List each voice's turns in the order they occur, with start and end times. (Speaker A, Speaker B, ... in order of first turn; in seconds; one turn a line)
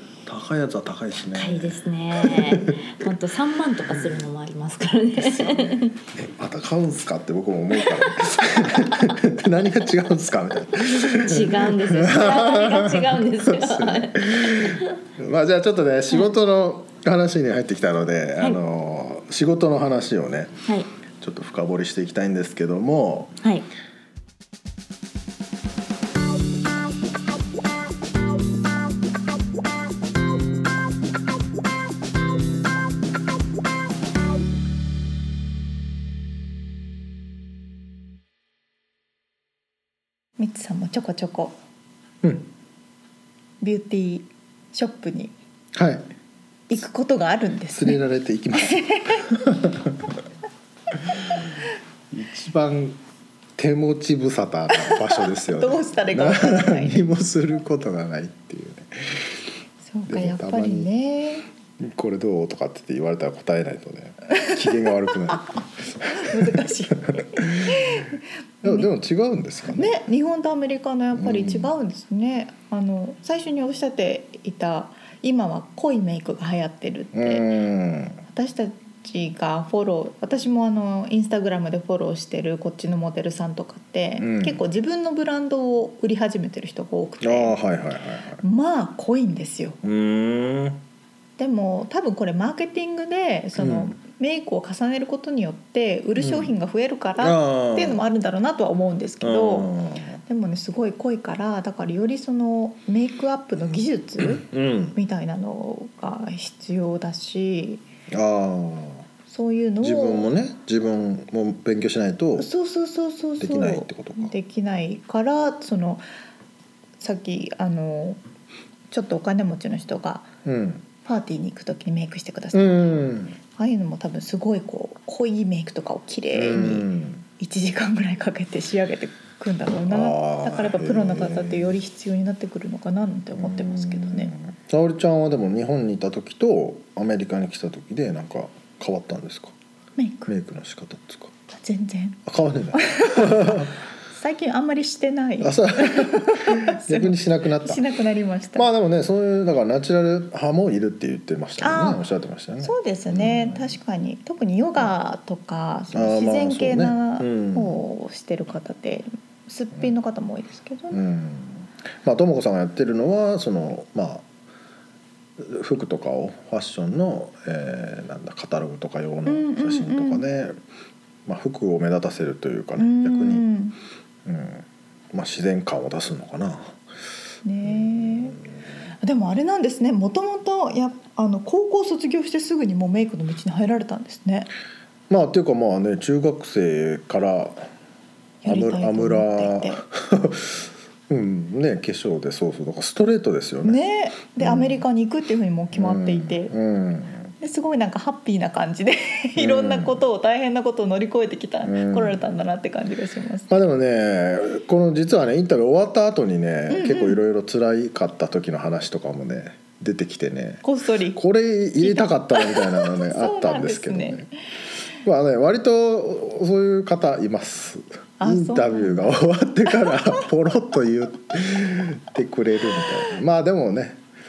Speaker A: 0.2-3.1
Speaker B: 1.3-6.0
Speaker A: 5.2-20.6
Speaker B: 8.7-9.1
Speaker B: 10.8-14.9
Speaker A: 21.2-23.4
Speaker B: 23.4-23.7
Speaker C: 40.4-41.6
Speaker C: 43.6-45.3
Speaker A: 45.8-46.1
Speaker C: 46.7-48.0
Speaker A: 47.7-50.1
Speaker C: 48.5-49.4
Speaker A: 50.9-51.5
Speaker A: 52.1-53.0
Speaker A: 53.6-59.4
Speaker C: 54.7-57.0
Speaker C: 59.9-61.5
Speaker A: 60.1-60.9
Speaker A: 61.8-68.1
Speaker C: 64.4-65.5
Speaker C: 66.0-68.9
Speaker A: 68.6-70.0
Speaker C: 69.7-77.5
Speaker A: 71.1-71.7
Speaker A: 77.1-78.2
Speaker C: 78.3-87.6
Speaker A: 84.2-84.6
Speaker A: 87.2-88.4
Speaker C: 88.4-89.8
Speaker A: 89.8-90.8
Speaker C: 91.4-99.7
Speaker A: 93.6-93.9
Speaker A: 96.2-96.5
Speaker A: 97.2-98.0
Speaker A: 99.2-100.2
Speaker C: 100.3-107.8
Speaker A: 104.2-105.0
Speaker A: 108.1-109.1
Speaker C: 109.3-110.3
Speaker A: 109.8-112.5
Speaker C: 112.4-116.0
Speaker A: 113.4-114.3
Speaker C: 117.0-118.2
Speaker C: 118.9-120.3
Speaker A: 120.5-120.8
Speaker C: 121.0-134.3
Speaker A: 122.5-123.4
Speaker A: 126.3-127.2
Speaker A: 129.9-131.8
Speaker A: 133.4-139.6
Speaker C: 140.0-140.3
Speaker A: 140.3-141.3
Speaker C: 141.5-142.2
Speaker A: 142.3-143.7
Speaker C: 142.7-148.7
Speaker A: 145.4-147.8
Speaker A: 148.6-153.7
Speaker C: 151.6-152.0
Speaker C: 152.6-161.0
Speaker A: 155.9-157.8
Speaker A: 160.9-164.3
Speaker A: 165.4-170.6
Speaker C: 169.3-170.2
Speaker A: 171.3-173.4
Speaker C: 172.8-173.8
Speaker A: 174.2-176.8
Speaker C: 177.4-178.4
Speaker A: 177.6-178.3
Speaker C: 179.0-184.5
Speaker A: 185.1-187.7
Speaker C: 188.4-189.8
Speaker A: 188.5-193.8
Speaker C: 193.6-196.5
Speaker A: 194.4-194.8
Speaker A: 195.7-197.3
Speaker C: 197.4-203.5
Speaker A: 199.4-200.0
Speaker A: 201.6-202.2
Speaker A: 203.5-210.6
Speaker C: 206.7-207.2
Speaker C: 210.6-211.2
Speaker A: 211.1-214.3
Speaker C: 211.8-214.3
Speaker A: 215.0-224.0
Speaker C: 218.2-220.2